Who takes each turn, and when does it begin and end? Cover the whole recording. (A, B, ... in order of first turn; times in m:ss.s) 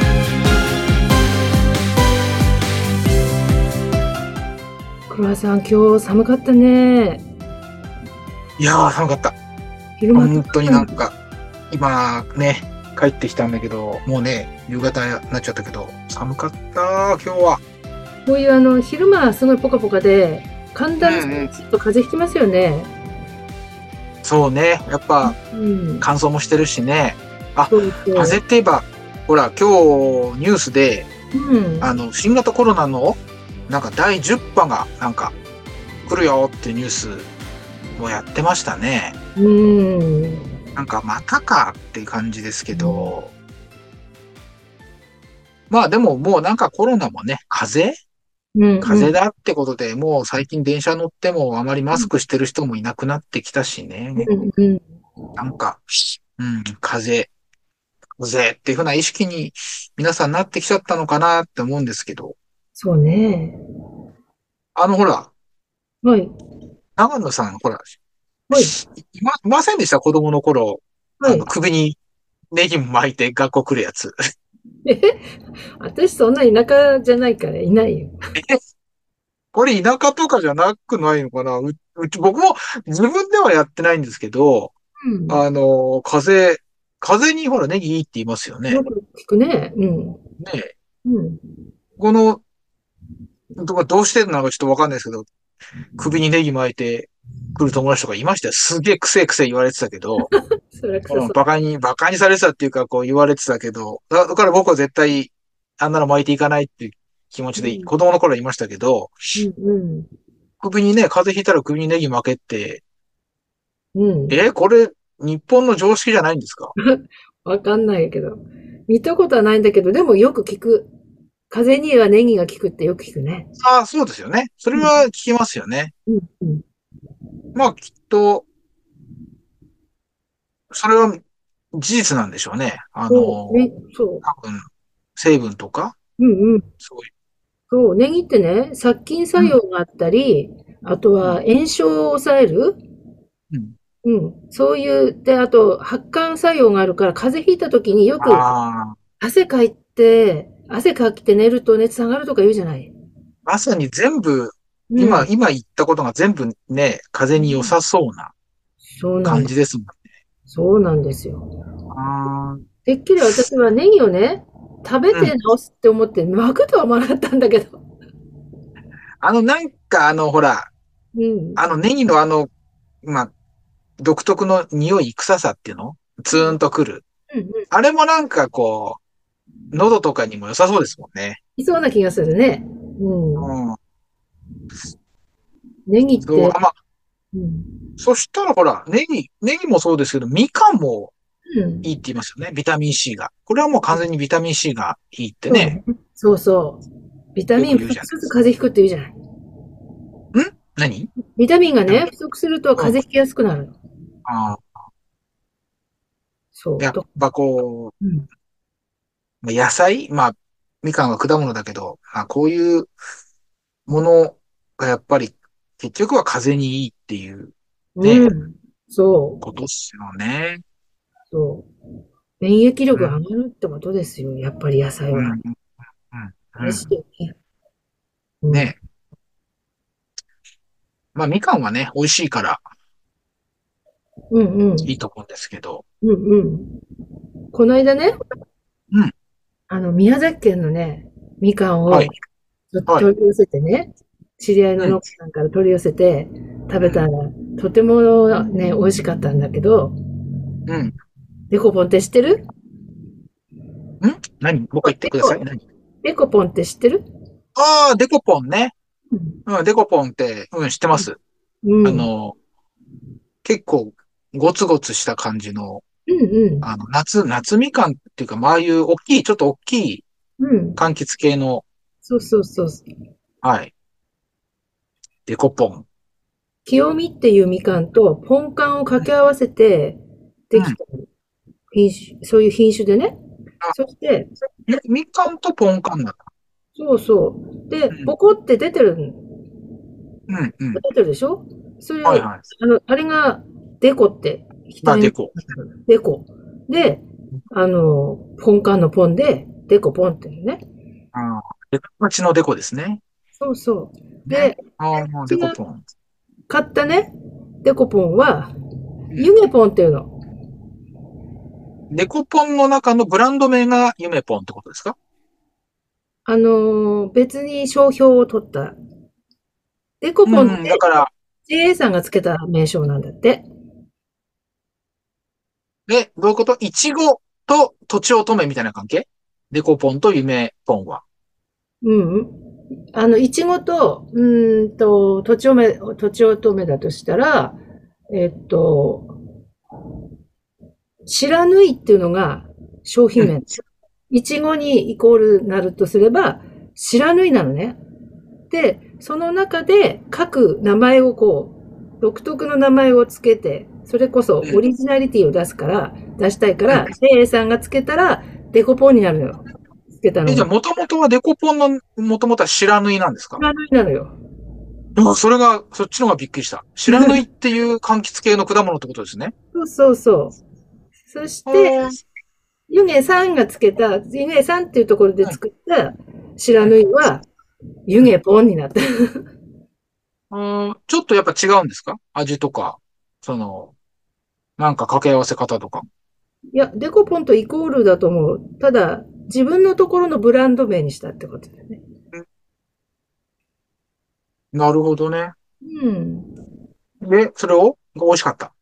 0:05.1-0:07.2 A
0:08.6-0:09.4 B
0:10.0-0:11.0 A
0:10.1-0:11.1 B
0:11.7-0:17.6 B
0:18.2-0:22.9 A
0:21.0-0:21.5 B
0:24.2-0:25.4 B
0:25.2-0:26.1 A
0:26.0-0:31.1 B
0:27.7-0:28.4 A
0:31.3-0:31.9 A
0:31.8-0:35.3 B
0:36.1-0:37.3 B
0:38.0-0:39.2 B
0:39.4-0:40.4 A
0:40.8-0:43.3 B
0:42.7-0:43.1 A
0:45.7-0:48.0 B
0:48.5-0:49.1 A
0:48.8-0:54.3 B
0:54.2-0:54.8 A
0:55.4-0:57.3 B
0:58.2-1:02.4 B
1:02.7-1:03.6 A
1:04.7-1:05.3 B
1:06.0-1:06.3 A
1:07.0-1:07.9 B
1:08.5-1:12.0 B
1:11.2-1:11.5 A
1:12.5-1:14.2 B
1:14.8-1:15.3 A
1:15.8-1:18.2 A
1:19.5-1:24.7 B
1:25.0-1:25.4 A
1:25.3-1:28.8 B
1:28.7-1:30.2 A
1:30.4-1:30.7 B
1:31.0-1:31.4 A
1:32.0-1:32.4 B
1:33.6-1:35.3 B
1:36.0-1:40.3 B
1:40.3-1:41.4 A
1:41.1-1:49.2 B
1:47.6-1:47.9 A
1:49.4-1:50.1 A
1:50.6-1:52.8 B
1:53.9-1:54.4 A
1:54.3-1:56.7 B
1:56.8-2:00.9 A
2:01.5-2:03.5 A
2:03.6-2:05.9 B
2:04.7-2:05.0 A
2:06.1-2:06.6 A
2:07.5-2:08.4 B
2:10.7-2:11.2 B
2:11.7-2:13.7 B
2:13.1-2:14.2 A
2:14.2-2:14.6 B
2:15.2-2:16.0 B
2:16.2-2:16.7 A
2:16.8-2:17.1 B
2:17.7-2:22.8 A
2:23.5-2:23.8 B
2:24.0-2:28.5 A
2:28.2-2:29.0 B
2:29.2-2:32.9 A
2:33.4-2:38.3 B
2:34.9-2:35.3 A
2:37.4-2:37.7 A
2:39.0-2:39.5 A
2:39.2-2:40.0 B
2:40.5-2:41.5 A
2:41.9-2:42.6 B
2:42.8-2:47.8 A
2:43.2-2:43.5 B
2:49.2-2:50.7 B
2:51.1-2:51.6 A
2:51.6-2:52.5 B
2:53.0-2:53.3 B
2:54.0-2:57.0 B
2:56.3-2:56.6 A
2:57.3-2:57.7 A
2:57.7-2:59.0 B
2:59.7-3:01.4 B
3:01.6-3:03.5 A
3:03.4-3:03.8 B
3:05.9-3:06.6 A
3:06.2-3:06.7 B
3:07.3-3:07.7 A
3:08.0-3:11.1 B
3:11.5-3:11.9 A
3:11.8-3:15.8 B
3:15.5-3:16.8 A
3:17.3-3:19.1 A
3:17.6-3:18.2 B
3:20.3-3:21.1 B
3:21.3-3:23.7 A
3:24.2-3:24.6 B
3:26.5-3:27.2 A
3:26.8-3:27.9 B
3:28.0-3:28.3 A
3:29.4-3:32.9 B
3:33.9-3:38.3 B
3:38.0-3:39.4 A
3:39.4-3:40.6 B
3:41.3-3:41.7 A
3:42.4-3:45.4 A
3:42.9-3:43.2 B
3:45.1-3:45.5 B
3:46.1-3:46.9 B
3:46.6-3:47.4 A
3:48.4-3:48.7 A
3:48.5-3:48.8 B
3:51.1-3:52.6 B
3:54.3-3:54.9 A
3:54.8-3:55.8 B
3:56.0-3:56.8 A
3:57.5-3:58.2 A
3:59.7-4:10.0 A
4:06.8-4:07.0 B
4:10.7-4:10.9 B
4:11.5-4:12.5 A
4:14.0-4:15.6 B
4:14.8-4:15.4 A
4:16.0-4:17.0 A
4:17.6-4:18.7 B
4:19.1-4:19.4 A
4:19.5-4:21.2 B
4:21.6-4:22.1 A
4:21.8-4:22.4 B
4:23.4-4:25.8 B
4:26.1-4:26.7 A
4:26.6-4:30.0 B
4:30.4-4:30.8 A
4:30.8-4:31.6 B
4:32.0-4:32.8 A
4:33.4-4:33.7 B
4:35.3-4:35.8 B
4:36.6-4:41.1 A
4:41.7-4:43.2 A
4:43.7-4:44.3 A
4:44.6-4:46.2 B
4:46.7-4:49.2 A
4:50.3-4:50.8 B
4:50.7-5:00.6 A
4:52.0-4:52.4 B
4:54.8-4:55.3 B
5:01.1-5:03.0 B
5:03.4-5:04.6 A
5:04.2-5:05.8 B
5:05.2-5:05.6 A
5:06.5-5:08.5 A
5:09.1-5:10.1 A
5:11.9-5:15.0 B
5:16.2-5:18.8 A
5:20.0-5:20.8 A
5:20.2-5:21.1 B
5:21.4-5:23.4 A
5:25.9-5:31.0 B
5:31.8-5:32.4 A
5:32.9-5:37.6 A
5:38.1-5:39.2 A
5:41.0-5:47.8 A
5:48.5-6:00.5 A
6:00.2-6:03.4 B
6:03.4-6:04.1 A
6:05.0-6:09.3 B
6:06.9-6:07.2 A
6:09.5-6:10.4 A
6:11.1-6:11.9 A
6:11.4-6:12.0 B
6:12.7-6:17.2 A
6:16.6-6:17.1 B
6:17.9-6:19.2 A
6:20.3-6:23.7 B
6:24.6-6:25.9 B
6:26.5-6:31.8 A
6:34.5-6:35.3 B
6:35.6-6:36.3 A
6:37.0-6:38.5 B